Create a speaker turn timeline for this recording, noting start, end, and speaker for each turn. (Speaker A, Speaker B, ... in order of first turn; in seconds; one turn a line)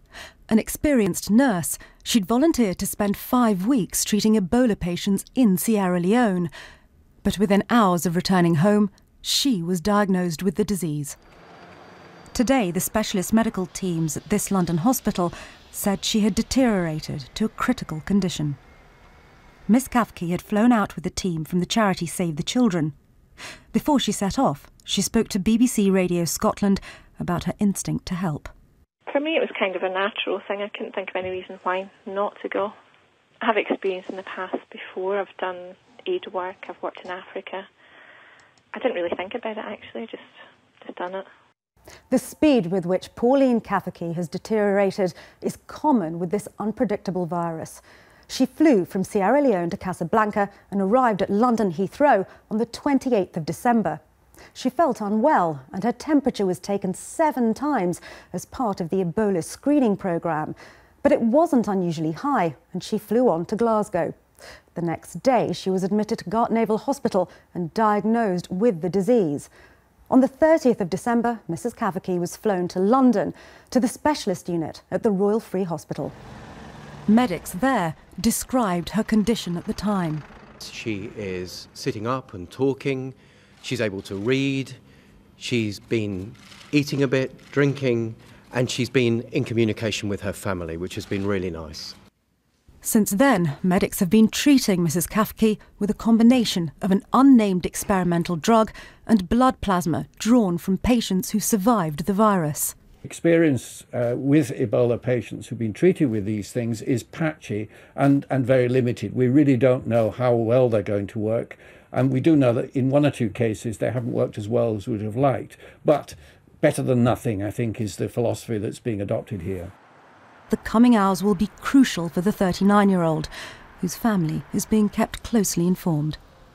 Speaker A: 0.5-6.5
Speaker A: 7.2-11.2
Speaker A: 12.3-18.6
Speaker A: 19.7-22.9
Speaker A: 23.7-28.5
Speaker B: 29.1-32.8
Speaker B: 33.4-37.7
Speaker B: 38.7-40.3
Speaker B: 40.8-41.3
Speaker A: 42.1-54.0
Speaker A: 54.5-64.1
Speaker A: 64.7-69.5
Speaker A: 70.1-76.2
Speaker A: 77.1-80.2
Speaker C: 80.6-84.8
Speaker C: 85.4-92.0
Speaker A: 92.8-102.8
Speaker D: 103.0-119.7
Speaker A: 120.5-123.3
Speaker A: 123.8-126.2